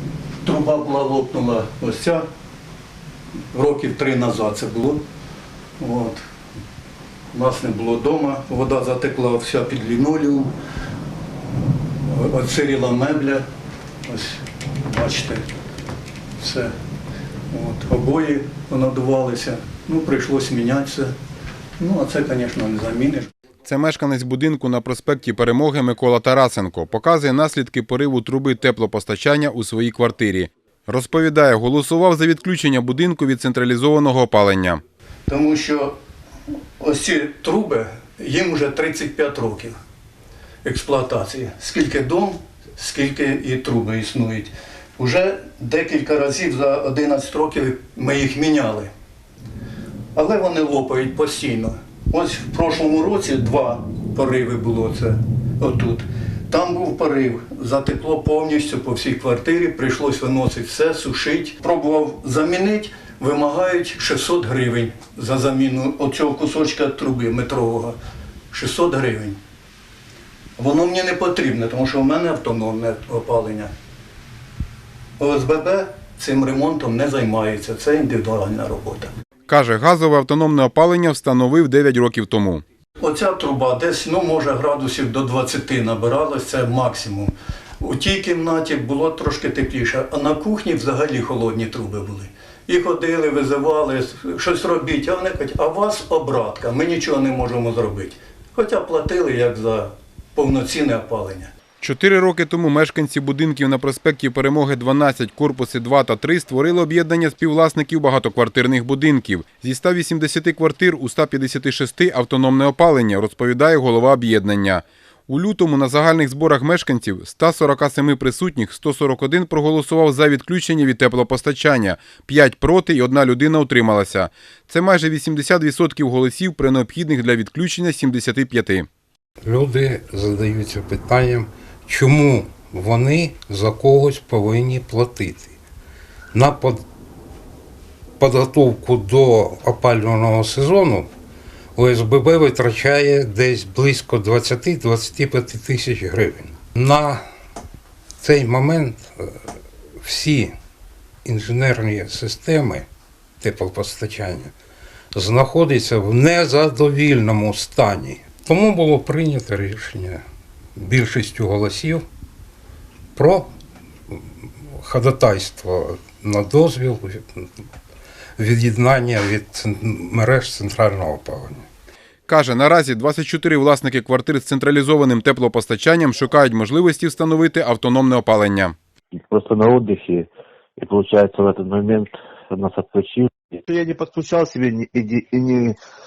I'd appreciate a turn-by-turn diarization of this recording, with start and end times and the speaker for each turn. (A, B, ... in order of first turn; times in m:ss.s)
0:00.4-0:02.2 A
0:03.5-0:05.0 A
0:05.8-0:06.2 A
0:07.3-0:10.5 A
0:12.0-0:13.4 A
0:14.1-0:15.4 A
0:16.4-0:16.7 A
0:17.5-0:21.1 A
0:21.8-0:23.3 A
0:23.6-0:34.8 B
0:35.3-0:35.9 A
0:36.8-0:39.8 A
0:40.6-0:48.9 A
0:50.2-1:08.0 A
1:08.5-1:09.4 A
1:10.6-1:13.7 A
1:15.2-1:19.1 A
1:19.5-1:22.6 B
1:23.0-1:41.5 A
1:41.8-2:08.9 B
2:09.5-2:15.5 C
2:16.3-2:16.8 C
2:18.2-2:21.1 C
2:21.8-2:27.2 C
2:28.2-2:29.4 C
2:30.0-2:30.5 C
2:31.2-2:32.8 C
2:33.4-2:34.5 C
2:35.2-2:40.2 C
2:40.8-2:42.0 C
2:43.2-2:43.5 C
2:44.8-2:47.5 C
2:48.4-2:51.7 C
2:52.3-2:58.8 B
2:59.2-3:05.8 D